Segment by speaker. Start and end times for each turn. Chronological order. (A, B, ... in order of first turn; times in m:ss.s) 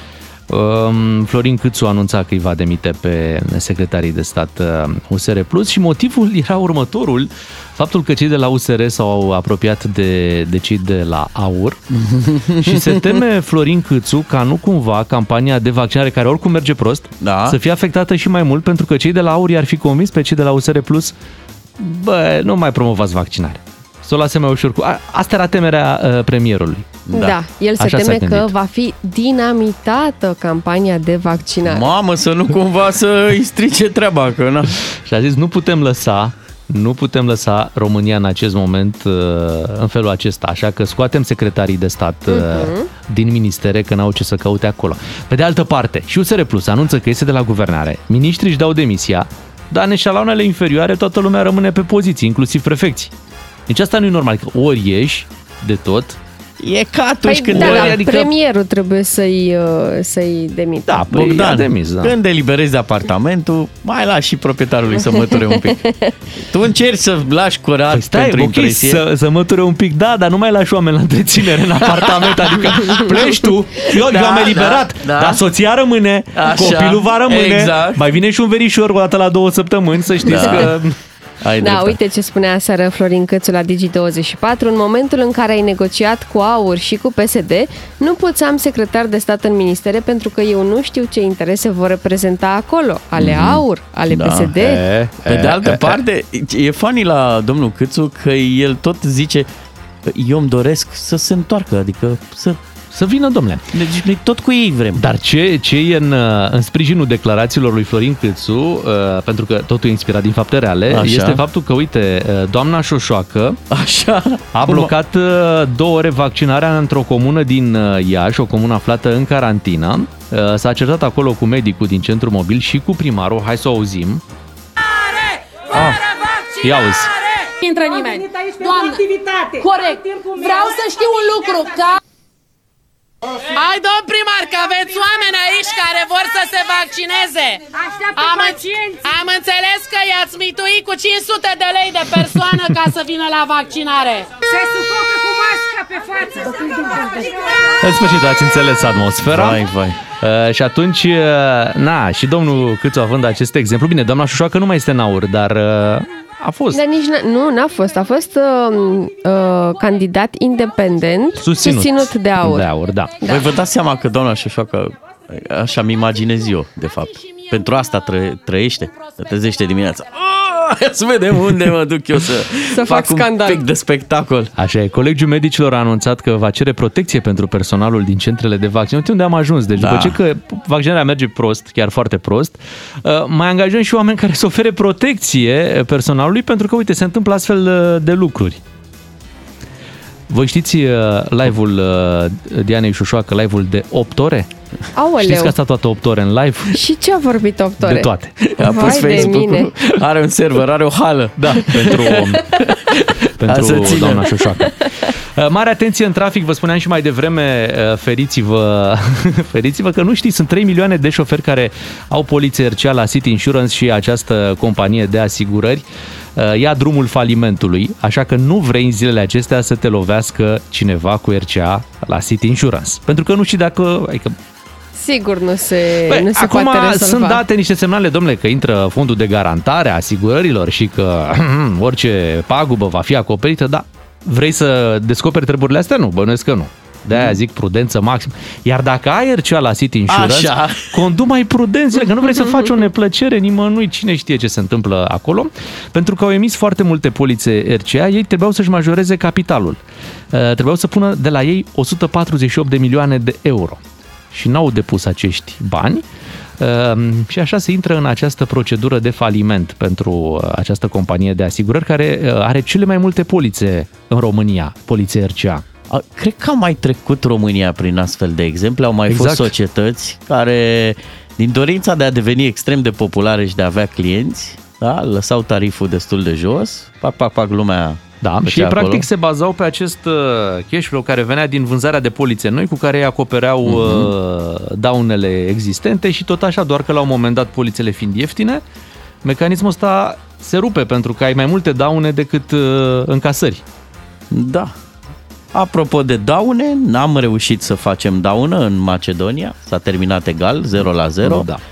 0:00.5-0:11.8 A
0:11.9-0:13.2 B
0:12.6-0:21.1 A
0:17.2-0:17.6 B
0:21.8-0:26.9 A
0:27.1-0:27.4 B
0:27.1-0:31.9 C
0:27.8-0:28.5 A
0:31.7-0:34.8 B
0:35.0-0:53.1 A
0:42.3-0:42.9 C
0:53.7-0:56.2 A
0:56.6-0:58.0 B
0:57.3-1:01.1 C
0:57.5-0:58.3 A
1:00.9-1:02.2 A
1:01.1-1:05.8 B
1:05.3-1:06.1 C
1:06.4-1:09.0 B
1:07.9-1:21.0 A
1:11.8-1:13.1 B
1:13.9-1:15.4 B
1:16.4-1:18.0 B
1:20.2-1:20.8 B
1:21.4-1:22.0 B
1:21.6-1:34.8 C
1:33.2-1:34.6 B
1:34.6-1:36.0 A
1:35.3-1:39.5 B
1:40.0-1:42.6 B
1:42.9-1:43.8 A
1:43.7-1:45.0 B
1:45.0-1:53.6 A
1:50.9-1:51.4 B
1:53.7-1:54.9 B
1:54.5-2:04.2 A
2:05.7-2:06.0 A
2:06.6-2:07.1 A
2:07.6-2:12.0 D
2:13.5-2:27.3 D
2:27.8-2:29.6 A
2:29.3-2:30.0 B
2:30.2-2:36.8 A
2:36.7-2:42.7 C
2:41.4-2:43.2 A
2:43.2-2:54.5 B
2:52.7-2:53.6 C
2:54.6-3:08.6 A
2:59.8-3:00.2 B
3:10.3-3:14.5 A
3:15.0-3:15.5 C
3:15.2-3:16.8 A
3:16.7-3:18.1 C
3:17.8-3:19.5 A
3:18.5-3:24.4 B
3:18.6-3:19.7 C
3:21.4-3:22.6 A
3:23.4-3:35.8 A
3:36.4-3:44.4 A
3:45.0-3:47.4 C
3:46.1-4:09.8 A
3:57.1-3:57.4 B
4:00.1-4:01.0 B
4:10.3-4:13.8 A
4:14.3-4:16.0 A
4:16.6-4:25.6 A
4:25.9-4:39.0 B
4:29.1-4:29.5 A
4:38.2-4:48.6 A
4:43.6-4:44.1 B
4:49.2-4:53.6 A
4:54.3-4:54.7 B
4:55.5-5:01.5 B
5:01.2-5:01.6 A